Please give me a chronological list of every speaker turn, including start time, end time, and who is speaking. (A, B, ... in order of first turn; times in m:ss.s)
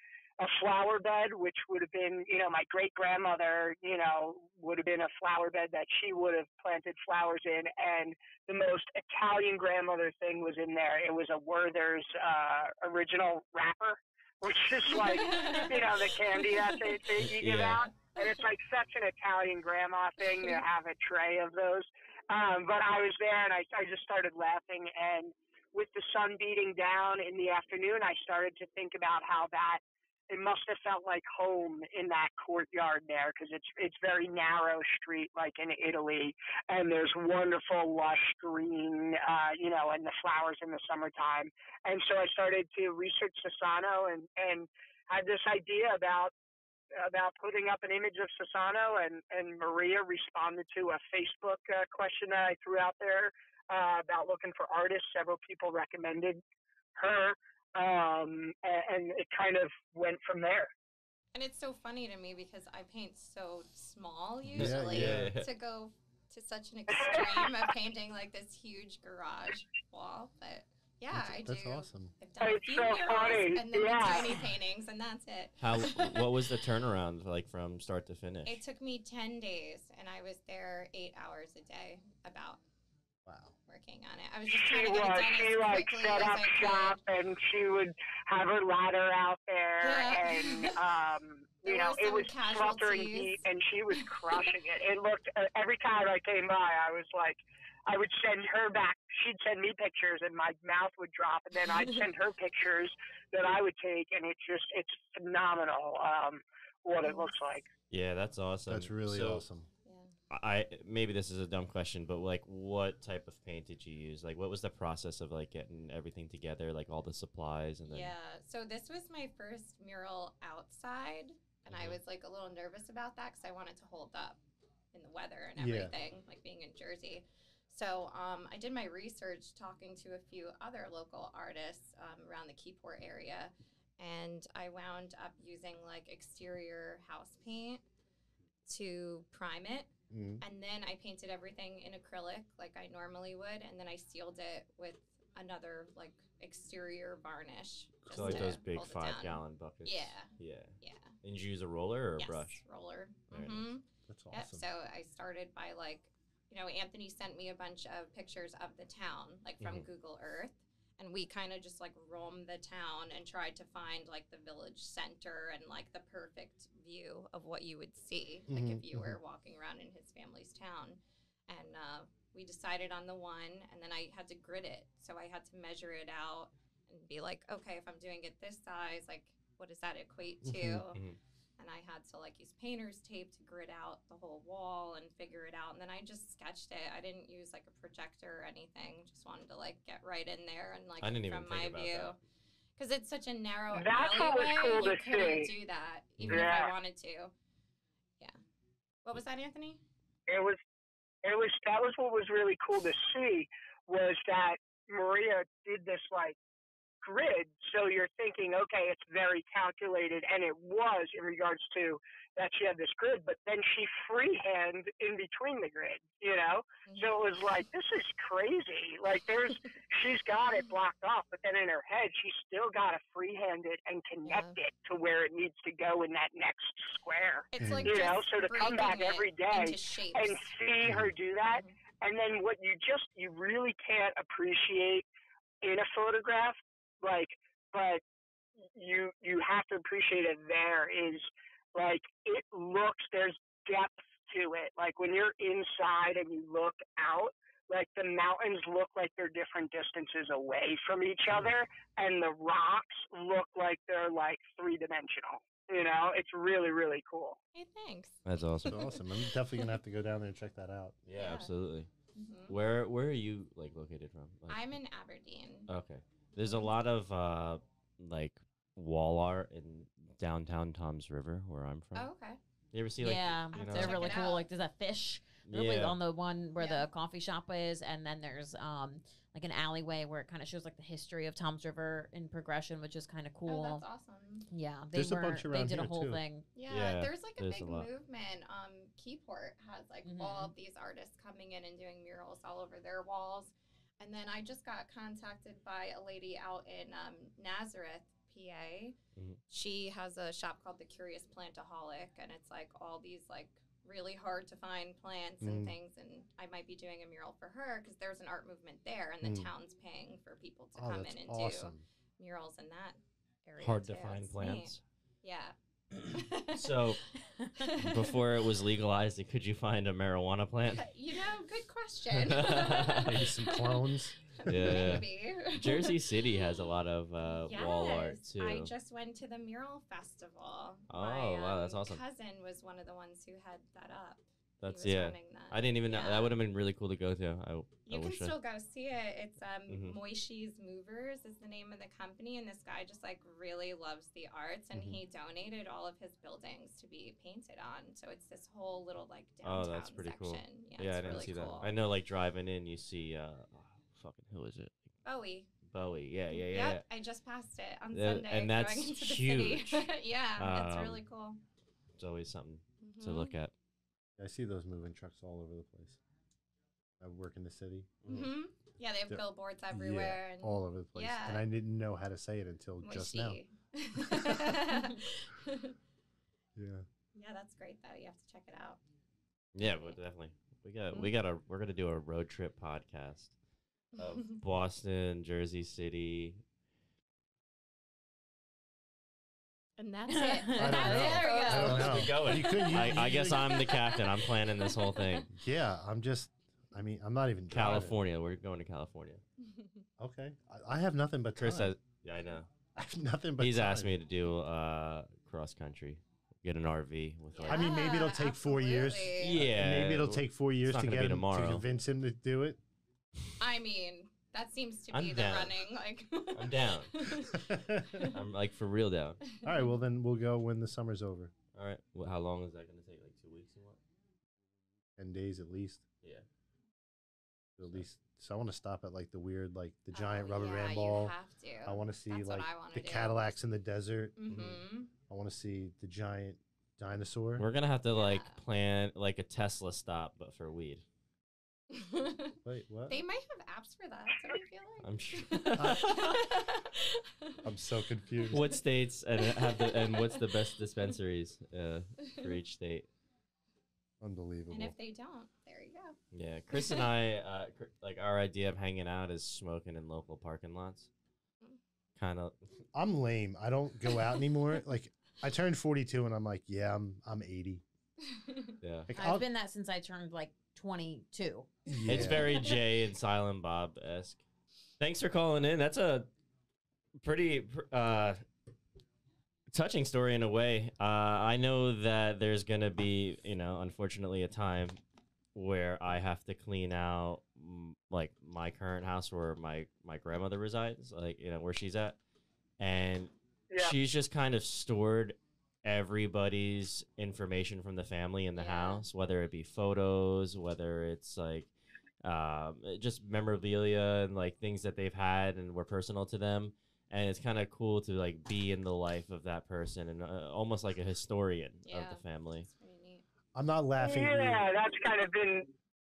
0:00.4-0:46.3 A
0:14.9-0:16.9 B
0:17.2-0:17.9 C
0:20.3-0:20.6 B
0:47.0-0:56.4 A
0:57.0-1:00.7 A
1:01.3-1:16.2 B
1:04.5-1:05.4 D
1:04.5-1:05.5 C
1:06.9-1:07.5 A
1:11.1-1:12.1 D
1:12.4-1:14.4 A
1:15.6-1:18.6 C
1:18.4-1:22.6 B
1:23.2-1:23.6 D
1:23.7-1:27.0 B
1:24.5-1:47.7 A
1:29.8-1:30.8 B
1:31.6-1:33.4 B
1:47.0-1:47.3 B
1:47.9-1:49.4 C
1:48.7-1:49.7 D
1:49.8-1:50.1 B
1:50.3-1:58.1 C
1:57.9-2:04.4 B
2:01.7-2:02.0 C
2:04.9-2:17.8 B
2:05.6-2:05.9 D
2:18.7-2:19.9 B
2:20.1-2:20.4 D
2:20.4-2:31.1 B
2:28.1-2:28.5 D
2:28.1-2:32.6 C
2:32.2-3:01.0 B
2:33.3-2:33.7 C
2:34.1-2:34.6 D
2:39.6-2:39.9 C
2:48.5-2:49.2 D
3:00.4-3:00.8 D
3:01.6-3:12.2 B
3:11.0-3:12.1 C
3:12.8-3:17.3 B
3:13.7-3:15.5 A
3:16.2-3:16.5 C
3:16.3-3:16.7 A
3:19.0-3:19.8 B
3:20.3-3:20.6 A
3:21.2-3:26.4 A
3:27.0-3:55.1 A
3:36.9-3:37.2 B
3:44.2-3:44.6 B
3:47.5-3:50.5 B
3:47.6-3:48.0 D
3:50.8-3:51.1 D
3:51.5-3:51.8 B
3:55.6-3:58.0 A
3:58.7-4:17.4 A
4:17.5-4:19.8 B
4:18.3-4:18.9 C
4:18.7-4:21.0 D
4:21.0-4:21.9 C
4:21.2-4:21.5 B
4:22.2-4:22.6 B
4:22.5-4:24.7 C
4:24.5-4:25.7 B
4:25.7-4:32.1 C
4:26.4-4:26.7 B
4:32.0-4:32.4 B
4:32.7-4:34.3 C
4:33.0-4:43.8 E
4:33.5-4:34.4 B
4:35.5-4:36.0 C
4:36.6-4:36.9 B
4:43.5-4:44.5 B
4:44.5-4:46.5 E
4:44.9-4:46.2 D
4:46.6-4:59.0 B
4:46.7-4:47.9 C
4:50.0-4:50.5 E
4:59.5-5:14.7 B
5:05.4-5:05.8 D
5:09.2-5:09.5 D
5:10.8-5:11.8 D
5:13.6-5:14.8 C
5:15.2-5:18.2 B
5:16.5-5:17.0 C
5:17.8-5:20.8 C
5:20.8-5:26.5 B
5:22.1-5:23.3 C
5:23.0-5:25.0 D
5:24.5-5:28.7 C
5:27.2-5:36.4 B
5:30.9-5:32.0 C
5:34.6-5:38.4 C
5:37.9-5:51.7 B
5:39.7-5:40.0 C
5:49.4-5:54.8 C
5:55.0-5:55.5 B
5:55.7-5:56.8 C
5:56.3-6:01.4 B
5:57.9-6:01.0 C
6:02.0-6:03.5 C
6:02.8-6:03.4 B
6:04.2-6:06.0 D
6:07.0-6:08.1 D
6:08.0-6:08.3 C
6:08.1-6:11.5 B
6:09.1-6:13.4 D
6:12.8-6:15.8 B
6:14.0-6:14.8 D
6:16.6-6:16.8 D
6:17.2-6:18.8 B
6:19.6-6:23.3 C
6:19.6-6:20.0 B
6:24.0-6:26.4 C
6:24.0-6:24.4 B
6:29.8-6:35.3 B
6:30.1-6:31.9 E
6:30.6-6:33.6 D
6:31.5-6:35.3 C
6:35.3-6:38.0 D
6:37.5-6:39.2 C
6:39.4-6:39.8 B
6:40.0-6:41.8 D
6:41.4-6:42.5 C
6:42.8-6:44.0 D
6:43.4-6:47.8 C
6:47.3-6:49.5 B
6:47.5-6:52.6 D
6:49.2-6:51.6 C
6:53.4-6:58.2 B
6:54.9-6:55.6 C
6:56.3-6:57.0 C
6:57.3-6:58.0 D
6:58.1-6:59.2 C
6:59.4-6:59.8 B
6:59.4-7:01.3 D
7:01.5-7:03.8 C
7:05.0-7:05.8 D
7:07.6-7:14.2 D
7:09.9-7:13.3 B
7:14.2-7:14.9 B
7:14.3-7:14.6 C
7:15.1-7:17.5 D
7:17.4-7:20.8 C
7:17.9-7:18.4 B
7:21.7-7:22.4 B
7:22.4-7:23.0 D
7:22.9-7:27.4 B
7:24.8-7:26.3 C
7:25.6-7:25.9 D
7:27.4-7:28.5 D
7:28.3-7:32.9 C
7:29.2-7:30.3 B
7:34.0-7:34.8 D
7:34.5-7:36.0 B
7:36.1-7:40.9 C
7:36.5-7:36.9 B
7:42.0-7:42.4 C
7:42.7-7:47.6 D
7:48.2-7:48.5 B
7:48.6-7:48.9 C
7:48.9-7:49.3 D
7:49.0-7:51.5 E
7:51.7-7:52.4 D
7:51.9-7:54.2 C
7:54.8-7:56.1 C
7:57.0-7:58.2 C
7:59.5-8:04.8 C
8:05.4-8:12.0 C
8:12.6-8:21.5 C
8:13.5-8:13.8 A
8:18.4-8:18.9 B
8:22.0-8:32.5 C
8:31.7-8:33.0 B
8:33.4-8:34.5 D
8:33.8-8:35.5 A